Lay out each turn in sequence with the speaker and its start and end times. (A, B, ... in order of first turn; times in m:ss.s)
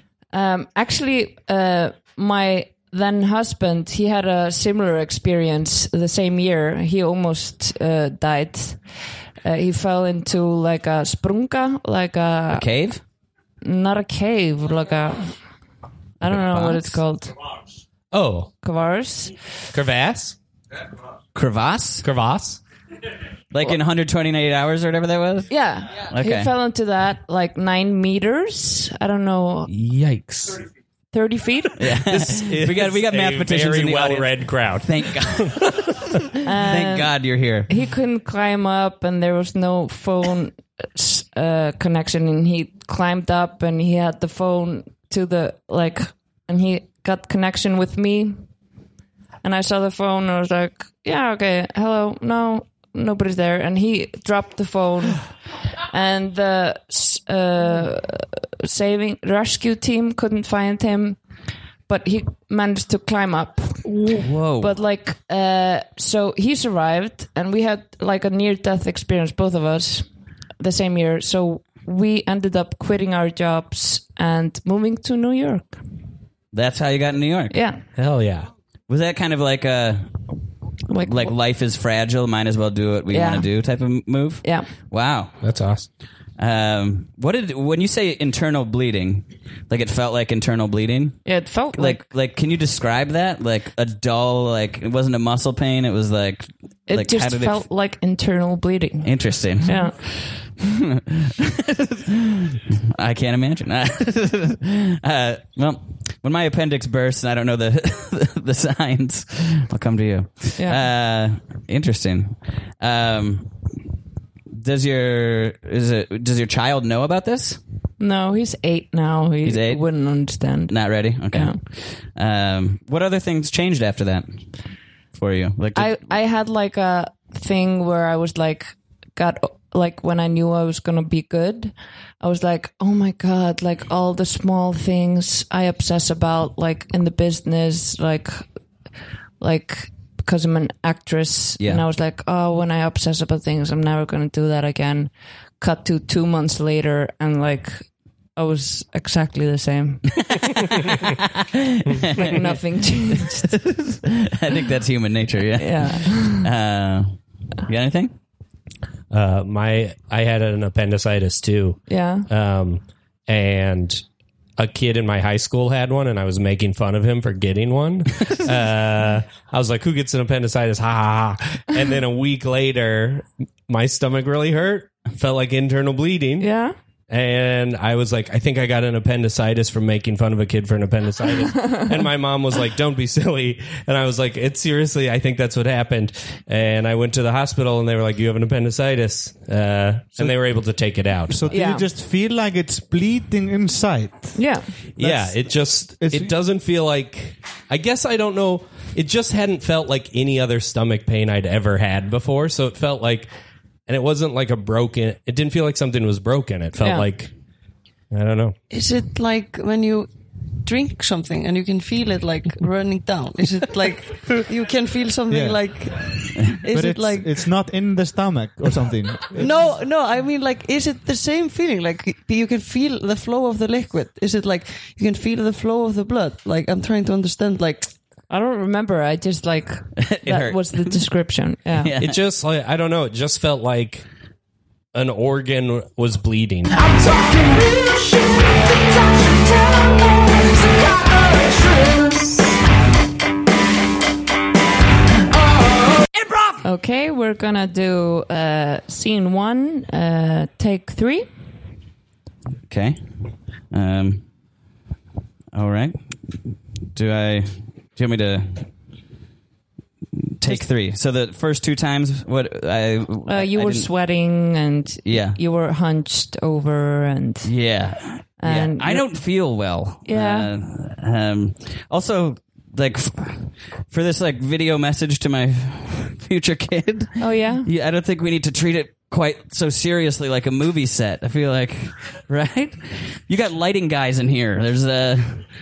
0:00.3-0:08.8 A
0:09.4-0:12.7 A
0:12.5-0:13.0 B
0:13.6-0:15.3 A
0:16.2-0:17.3 A
0:16.3-0:17.0 B
0:18.1-0:18.5 C
0:18.6-0:19.4 A
0:19.7-0:20.4 C
0:21.4-0:22.1 B
0:22.0-0:22.6 C
0:23.5-0:25.5 B
0:25.5-0:29.7 A
0:26.1-0:26.5 B
0:29.7-0:30.6 C
0:31.1-0:31.9 A
0:31.8-0:35.6 B
0:32.1-0:36.2 C
0:36.4-0:48.4 A
0:36.6-0:37.7 B
0:49.4-0:55.3 A
0:55.9-1:01.2 A
1:01.9-1:10.1 A
1:04.2-1:04.7 B
1:10.6-1:15.8 A
1:16.5-1:17.6 B
1:17.5-1:17.8 A
1:18.0-1:18.5 C
1:18.9-1:20.2 B
1:20.9-1:21.4 A
1:21.0-1:25.4 B
1:23.1-1:23.5 A
1:24.4-1:24.7 A
1:25.4-1:25.9 C
1:26.4-1:37.6 B
1:31.2-1:32.0 A
1:36.9-1:40.0 A
1:39.0-1:53.5 B
1:50.6-1:50.8 A
1:54.5-1:57.6 B
1:58.0-2:01.6 A
1:59.4-1:59.8 B
2:00.7-2:04.4 B
2:05.2-2:06.0 B
2:05.8-2:18.5 A
2:19.4-2:30.2 A
2:30.2-2:32.4 B
2:32.2-2:33.5 A
2:33.1-2:38.1 B
2:35.6-2:36.5 A
2:39.1-2:44.0 C
2:41.9-2:42.3 A
2:44.6-2:56.5 C
2:56.4-2:56.8 A
2:57.1-3:11.5 C
3:11.3-3:14.4 D
3:11.5-3:11.9 A
3:14.4-3:14.7 A
3:15.0-3:23.3 C
3:15.0-3:16.3 D
3:23.9-3:27.3 C
3:26.8-3:27.1 A
3:28.1-3:28.6 C
3:28.7-3:30.1 E
3:30.6-3:37.3 E
3:35.3-3:35.6 D
3:36.7-3:39.5 D
3:39.3-3:47.9 E
3:48.3-3:51.9 A
3:50.0-3:51.0 B
3:51.8-3:52.2 B
3:52.0-3:54.1 C
3:54.9-3:56.8 C
3:56.9-4:02.3 F
4:06.1-4:06.6 B
4:06.6-4:11.3 A
4:12.7-4:14.2 B
4:15.5-4:16.4 B
4:16.9-4:18.7 B
4:20.4-4:23.9 B
4:23.3-4:27.5 A
4:25.1-4:25.4 B
4:27.4-4:45.5 B
4:28.4-4:29.1 A
4:30.1-4:30.5 A
4:37.2-4:37.7 A